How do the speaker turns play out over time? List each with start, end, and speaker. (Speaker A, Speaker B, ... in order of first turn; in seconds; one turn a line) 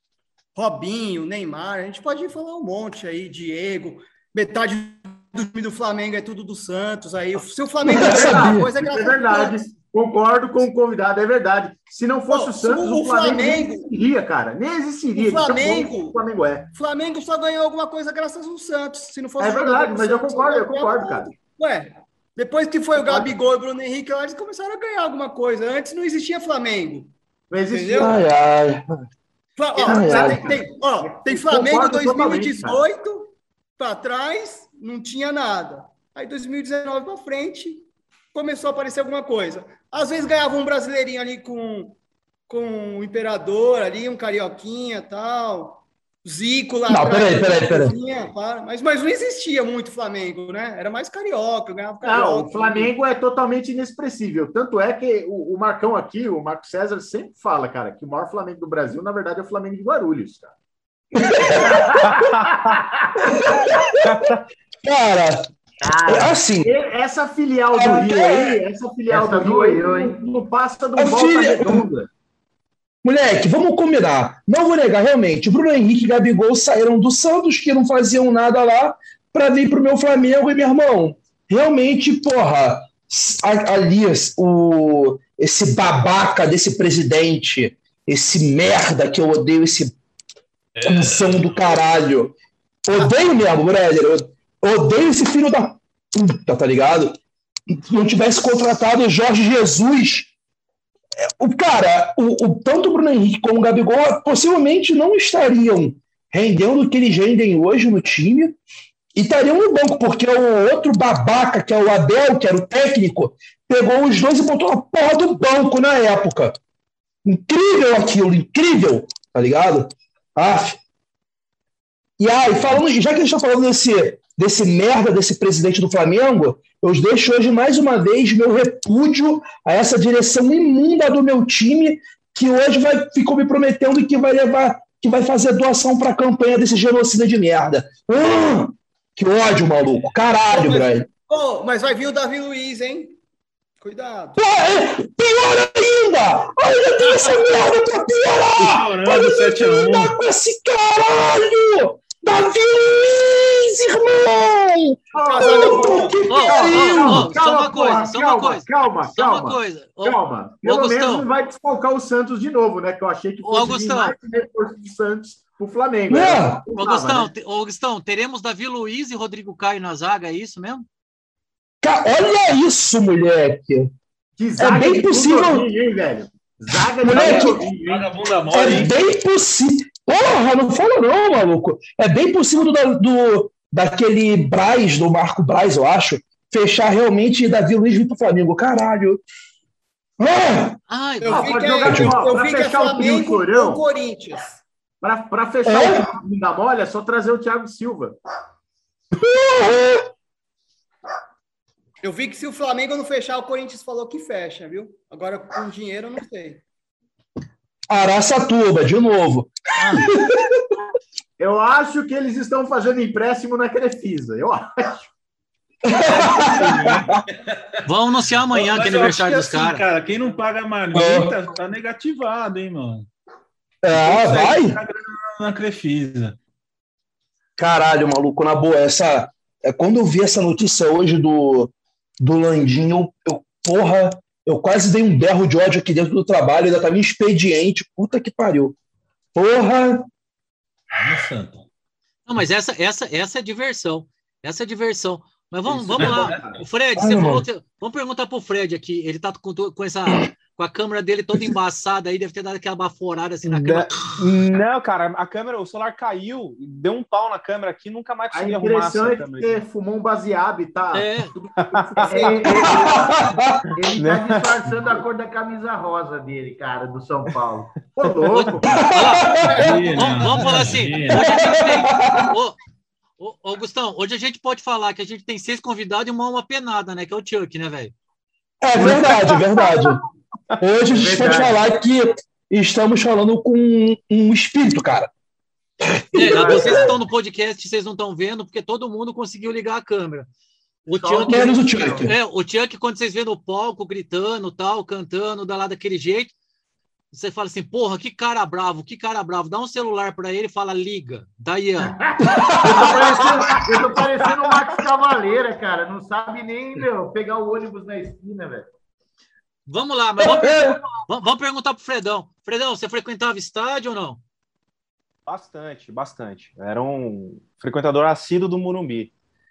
Speaker A: 0.5-9.5
Speaker B: 7.8-16.7
Speaker C: 7.8-8.7
Speaker A: 12.3-13.9
Speaker A: 15.2-16.2
Speaker A: 16.7-27.1
Speaker B: 19.4-21.3
Speaker B: 23.0-23.3
Speaker B: 27.5-28.3
Speaker A: 27.7-28.2
Speaker C: 28.0-29.0
Speaker A: 29.6-42.0
Speaker B: 29.7-32.8
Speaker C: 29.8-30.5
Speaker A: 42.5-52.9
Speaker C: 46.9-48.0
Speaker B: 52.0-60.5
Speaker C: 61.1-62.0
Speaker D: 61.7-63.3
Speaker E: 62.1-62.5
Speaker C: 63.2-64.3
Speaker E: 64.0-64.4
Speaker C: 64.8-65.5
Speaker D: 65.8-66.4
Speaker C: 66.1-66.7
Speaker B: 66.6-72.1
Speaker C: 67.7-68.5
Speaker D: 69.1-70.3
Speaker C: 71.0-71.9
Speaker C: 73.0-90.0
Speaker F: 90.8-91.5
Speaker C: 90.8-100.3
Speaker C: 101.2-108.6
Speaker C: 109.1-116.6
Speaker C: 117.2-120.8
Speaker C: 122.2-141.1
Speaker A: 140.5-143.2
Speaker A: 143.8-144.4
Speaker C: 144.4-157.3
Speaker F: 148.6-150.2
Speaker B: 155.1-167.3
Speaker A: 155.2-156.2
Speaker G: 156.3-161.3
Speaker G: 163.4-164.1
Speaker C: 166.1-166.6
Speaker G: 166.7-170.8
Speaker C: 171.8-173.9
Speaker B: 174.4-178.1
Speaker C: 174.6-175.7
Speaker C: 177.0-177.7
Speaker F: 177.7-178.9
Speaker C: 178.5-189.2
Speaker C: 190.2-190.8
Speaker G: 190.9-191.6
Speaker A: 191.2-194.6
Speaker B: 191.3-193.8
Speaker C: 191.8-192.2
Speaker B: 195.0-198.2
Speaker C: 195.7-196.1
Speaker C: 199.1-200.1
Speaker A: 202.0-206.6
Speaker C: 207.9-210.6
Speaker B: 211.4-215.1
Speaker C: 215.8-217.2
Speaker F: 216.0-217.6
Speaker G: 217.8-219.8
Speaker F: 218.5-223.1
Speaker C: 220.9-221.3
Speaker C: 223.8-224.8
Speaker F: 223.9-226.4
Speaker C: 227.6-238.8
Speaker C: 239.3-240.1
Speaker F: 240.9-241.7
Speaker G: 242.3-253.9
Speaker F: 245.7-246.6
Speaker B: 245.9-246.5
Speaker C: 246.9-247.4
Speaker E: 253.4-259.6
Speaker B: 258.3-262.7
Speaker G: 260.9-261.3
Speaker E: 261.7-262.3
Speaker D: 262.0-267.8
Speaker A: 262.1-262.5
Speaker C: 262.4-263.5
Speaker E: 263.9-264.7
Speaker B: 267.9-268.9
Speaker G: 268.3-272.6
Speaker C: 268.7-269.7
Speaker A: 269.5-270.1
Speaker F: 269.6-271.3
Speaker C: 271.2-272.3
Speaker G: 273.2-277.9
Speaker C: 278.6-280.0
Speaker D: 278.8-279.5
Speaker C: 280.6-285.1
Speaker D: 280.8-281.6
Speaker C: 285.8-286.9
Speaker G: 286.1-290.3
Speaker D: 286.2-287.0
Speaker D: 290.9-292.1
Speaker G: 290.9-296.3
Speaker C: 291.3-292.1
Speaker G: 297.1-301.9
Speaker D: 301.9-308.7
Speaker C: 302.3-303.0
Speaker G: 309.7-314.2
Speaker C: 310.2-310.8
Speaker E: 315.2-319.1